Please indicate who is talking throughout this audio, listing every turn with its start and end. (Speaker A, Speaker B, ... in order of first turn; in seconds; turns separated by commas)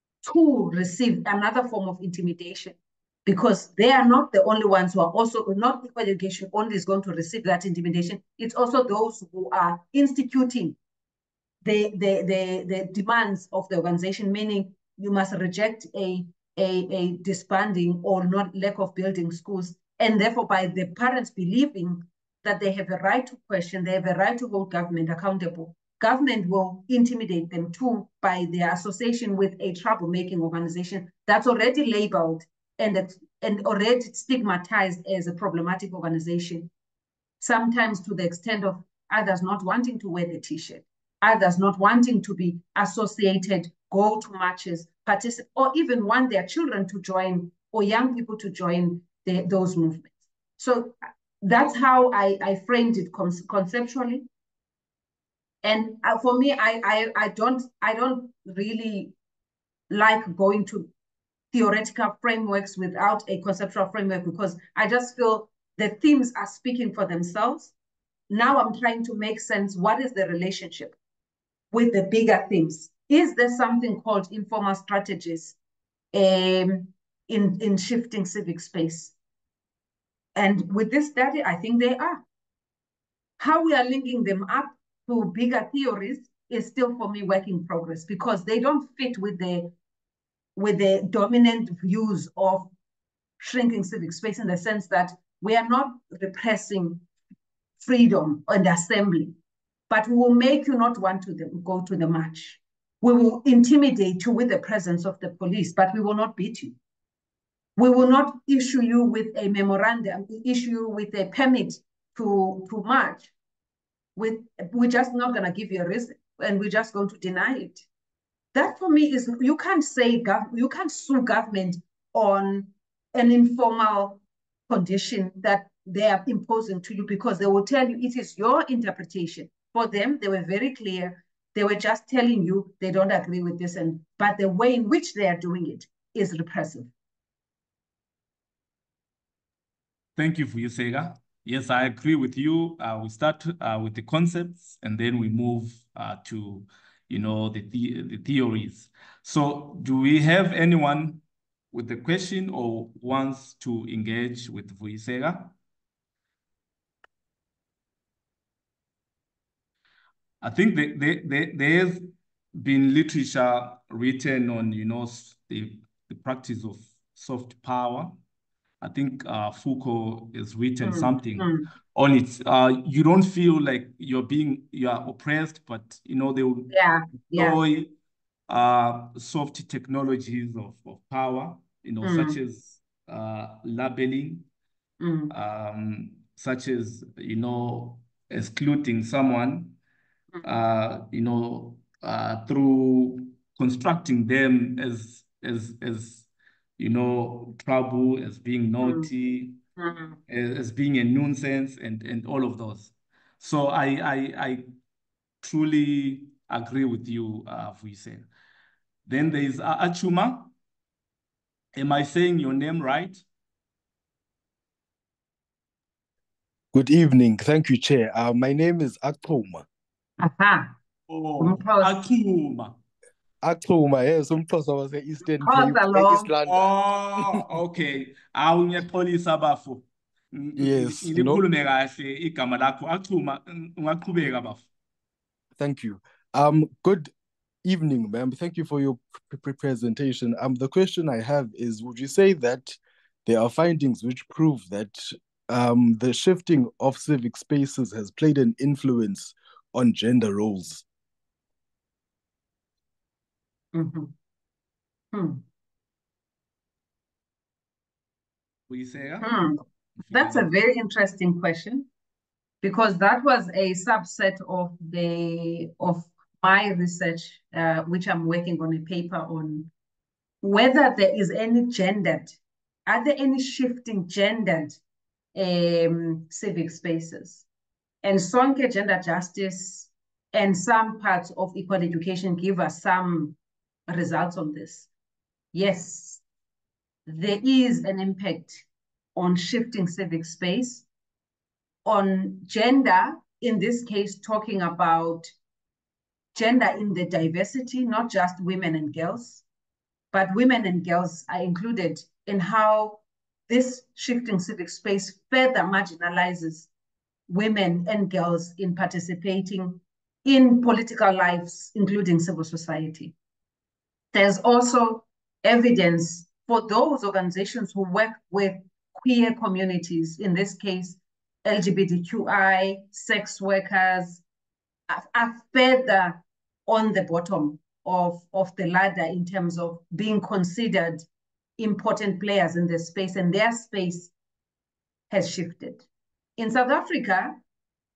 Speaker A: 0.2-10.8, Speaker A: 11.6-36.7, Speaker A: 37.4-54.3, Speaker A: 55.6-59.1, Speaker A: 59.9-60.9, Speaker A: 61.5-67.7, Speaker A: 68.3-71.0, Speaker A: 71.7-75.6, Speaker A: 76.1-79.1, Speaker A: 80.3-82.2, Speaker A: 83.4-89.7, Speaker A: 90.6-92.7, Speaker A: 93.4-97.1, Speaker A: 97.8-99.4, Speaker A: 99.9-106.8, Speaker A: 107.8-113.3, Speaker A: 114.2-117.9, Speaker A: 118.5-136.9, Speaker B: 140.2-155.5, Speaker B: 160.4-168.1, Speaker B: 168.8-176.8, Speaker A: 170.8-171.7, Speaker A: 176.7-177.6, Speaker B: 177.3-177.9, Speaker B: 178.5-184.5, Speaker A: 182.0-182.4, Speaker A: 185.0-185.3, Speaker B: 185.3-189.8, Speaker B: 190.4-196.3, Speaker B: 196.8-199.6, Speaker A: 198.8-199.1, Speaker A: 199.8-200.2, Speaker B: 200.3-204.7, Speaker B: 205.4-208.3, Speaker B: 209.1-210.5, Speaker B: 211.8-213.2, Speaker C: 216.7-219.7, Speaker A: 220.2-220.8, Speaker B: 221.1-222.8, Speaker A: 221.4-222.1, Speaker C: 223.4-227.4, Speaker A: 225.4-226.3, Speaker B: 226.5-234.7, Speaker C: 230.6-231.4, Speaker C: 235.6-237.1, Speaker C: 237.6-250.8, Speaker A: 253.7-254.1, Speaker A: 255.1-255.4, Speaker B: 258.7-260.5, Speaker A: 259.2-261.9, Speaker A: 262.6-269.7, Speaker A: 270.4-274.8, Speaker A: 275.4-277.4, Speaker A: 278.0-283.4, Speaker A: 283.9-284.9, Speaker A: 285.5-286.2, Speaker A: 287.1-290.9, Speaker A: 291.9-295.3, Speaker A: 296.3-299.4, Speaker A: 300.1-306.7, Speaker A: 307.3-313.1, Speaker A: 314.1-324.2, Speaker A: 324.9-331.1, Speaker A: 331.6-334.1, Speaker A: 335.1-335.9, Speaker A: 336.4-337.4